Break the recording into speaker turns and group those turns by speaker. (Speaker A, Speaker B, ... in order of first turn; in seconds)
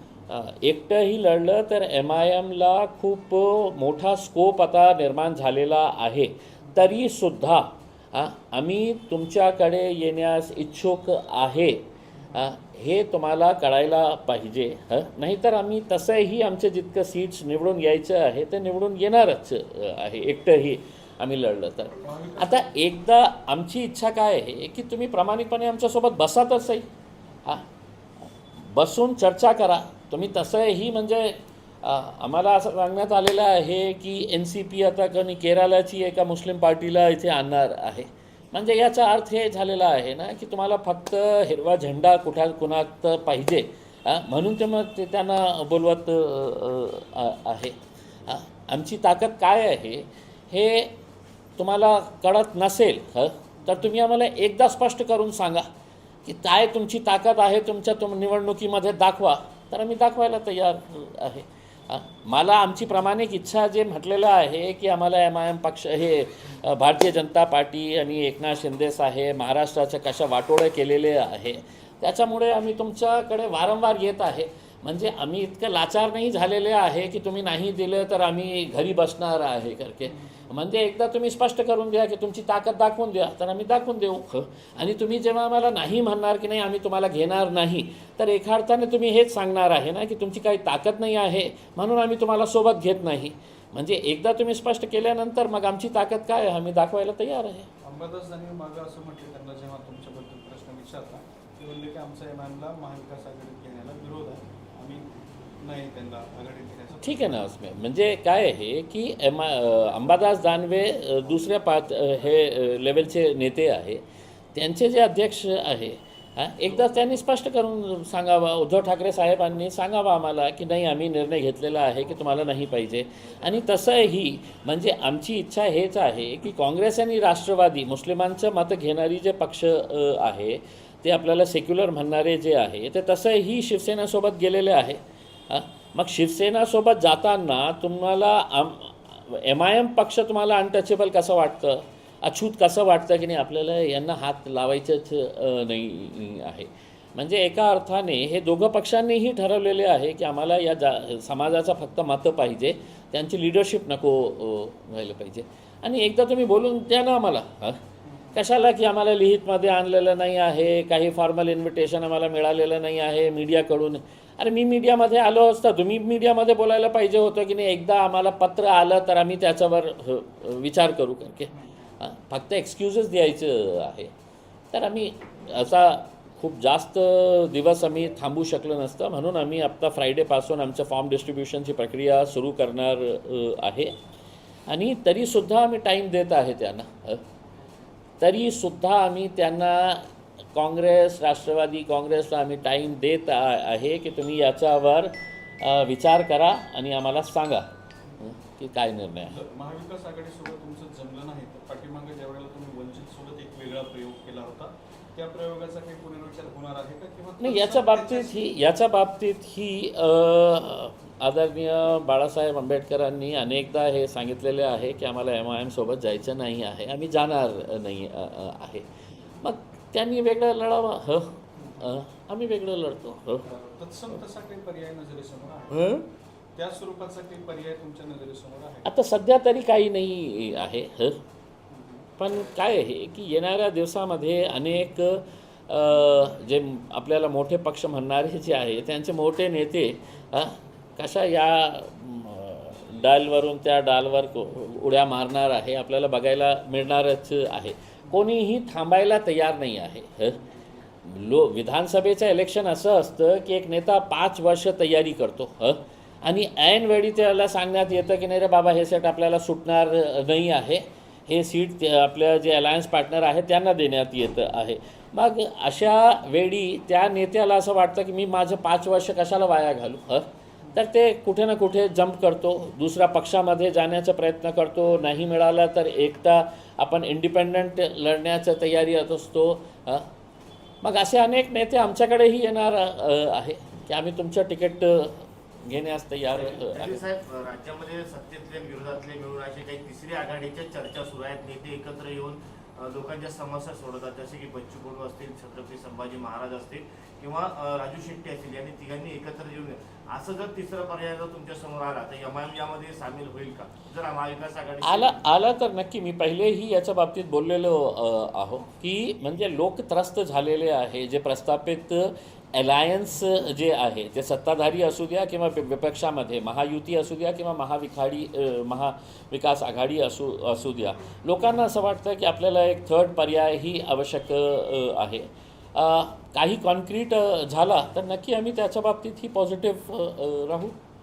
Speaker A: 0.3-26.9, 28.6-50.9, 51.6-55.7, 56.2-97.7, 107.0-114.0, 114.5-157.8, 158.3-174.1, 174.7-184.0, 184.7-187.2, 188.2-199.4, 207.4-218.8, 219.4-223.4, 225.7-226.0, 228.8-231.2, 232.2-250.4, 251.0-280.1, 280.8-287.0, 304.8-330.8
Speaker B: 22.0-22.6, 80.1-80.5, 97.8-105.0, 105.6-107.4, 158.0-158.4, 171.5-171.9, 199.3-208.3, 221.6-221.8, 223.4-225.9, 226.6-228.9, 231.7-232.1
Speaker C: 286.4-305.2